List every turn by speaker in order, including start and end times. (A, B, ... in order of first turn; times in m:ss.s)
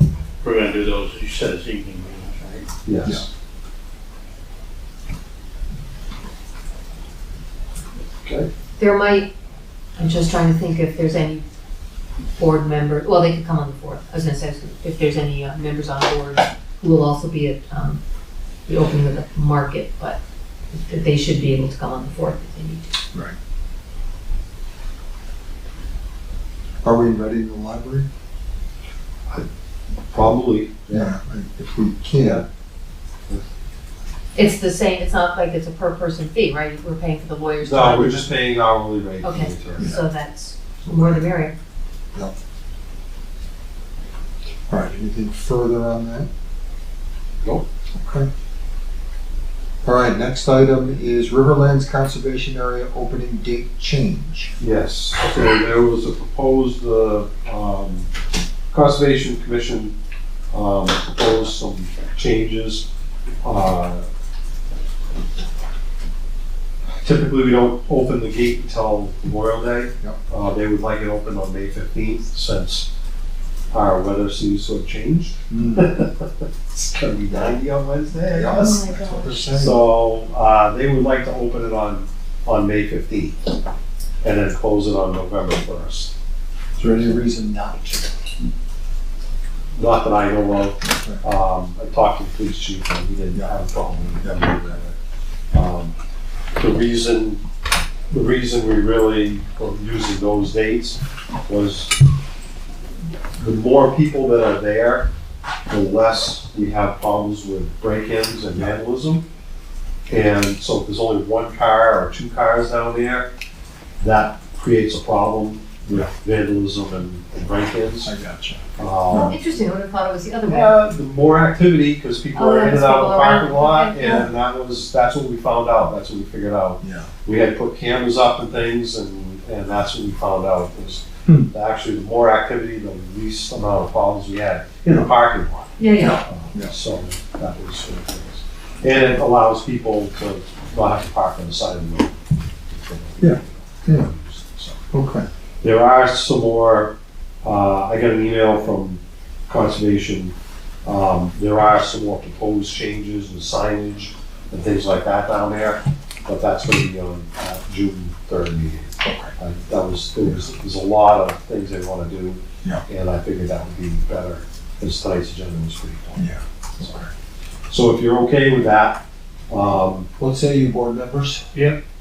0:00.4-0:02.7 A
0:02.8-0:03.3 B
0:08.2-0:08.5 B
0:08.8-0:09.3 C
0:10.0-0:11.4 C
0:12.4-0:18.0 C
0:18.7-0:20.2 C
0:20.7-0:22.8 C
0:26.8-0:28.1 D
0:30.1-0:31.2 B
0:30.9-0:32.4 D
0:32.2-0:32.4 B
0:34.3-0:38.3 C
0:37.6-0:39.9 B
0:39.2-0:41.5 C
0:44.7-0:46.3 D
0:48.0-0:48.3 D
0:49.8-0:54.5 D
0:54.6-0:58.1 B
0:58.7-0:59.9 B
1:00.5-1:02.8 B
1:03.4-1:04.1 B
1:07.0-1:12.9 B
1:13.7-1:18.8 B
1:15.5-1:15.9 D
1:17.3-1:17.6 D
1:18.3-1:19.8 D
1:18.5-1:19.5 C
1:19.5-1:23.4 B
1:24.2-1:26.1 B
1:26.8-1:28.1 D
1:26.9-1:27.2 B
1:29.8-1:35.0 B
1:30.8-1:31.2 D
1:35.5-1:35.9 B
1:36.6-1:37.4 B
1:38.1-1:41.9 B
1:43.4-1:45.0 B
1:45.7-1:49.2 B
1:50.1-1:53.3 B
1:54.0-1:58.1 B
1:58.0-1:59.3 D
1:58.8-1:59.4 B
1:59.1-2:00.7 C
2:00.5-2:24.8 B
2:02.3-2:04.3 C
2:06.8-2:07.1 D
2:15.8-2:16.2 C
2:16.0-2:16.7 D
2:23.2-2:24.1 D
2:24.9-2:25.3 D
2:25.6-2:47.0 B
2:39.0-2:39.3 D
2:46.2-2:47.1 D
2:47.7-2:50.1 B
2:50.2-2:51.4 D